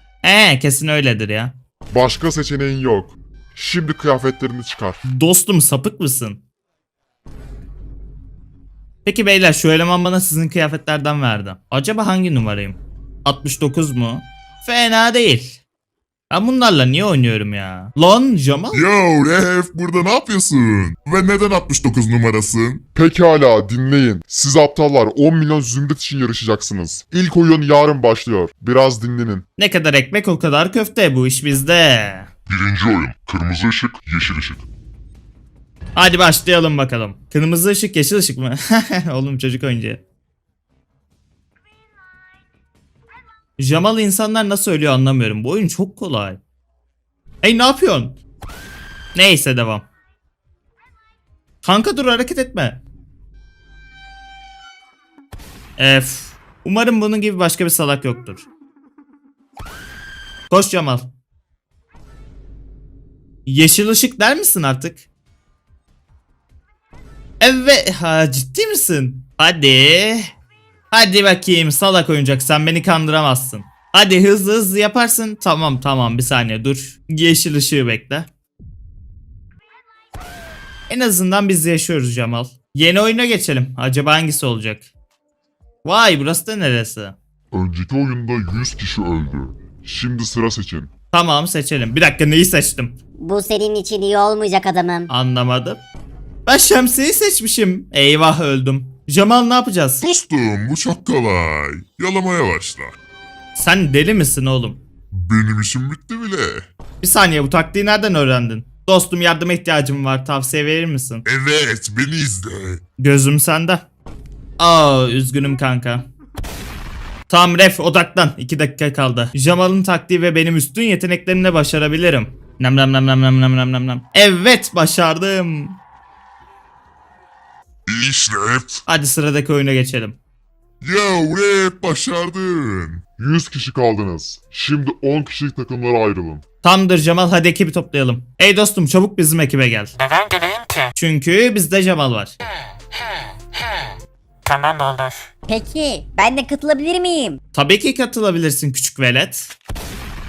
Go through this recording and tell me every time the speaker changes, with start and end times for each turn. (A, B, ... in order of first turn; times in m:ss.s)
0:00.2-0:01.5 A
0:01.9-0:05.0 B
0:05.0-0:06.4 A
0:09.0-0:15.6 A
0:16.3-0:18.8 A
0:18.7-0:22.8 C
0:22.9-0:29.4 B
0:29.6-0:32.3 A
0:32.5-0:34.6 C
0:36.0-0:40.0 A
0:43.6-0:46.4 A
0:47.4-0:48.2 A
0:49.1-0:49.9 A
0:51.6-0:52.8 A
0:55.8-0:58.4 A
1:00.5-1:01.1 A
1:03.4-1:05.0 A
1:07.4-1:10.3 A
1:10.9-1:18.3 A
1:20.9-1:24.9 A
1:25.8-1:27.2 A
1:27.5-1:30.9 B
1:31.1-1:33.0 A
1:33.2-1:35.1 D
1:35.1-1:35.8 A
1:36.4-1:40.0 A
1:40.0-1:42.9 C
1:43.5-1:44.8 A
1:45.1-1:46.7 C
1:47.0-1:51.2 A
1:51.2-1:52.8 C
1:53.0-1:53.9 A
1:54.6-1:56.1 A
1:57.3-2:05.8 A
2:07.9-2:08.8 C
2:08.9-2:10.2 A
2:10.8-2:13.0 C
2:13.2-2:16.4 B
2:16.6-2:19.9 A
2:19.9-2:20.9 E
2:21.0-2:22.4 A
2:22.9-2:23.9 E
2:24.4-2:25.3 E
2:25.5-2:27.4 D
2:27.5-2:29.5 A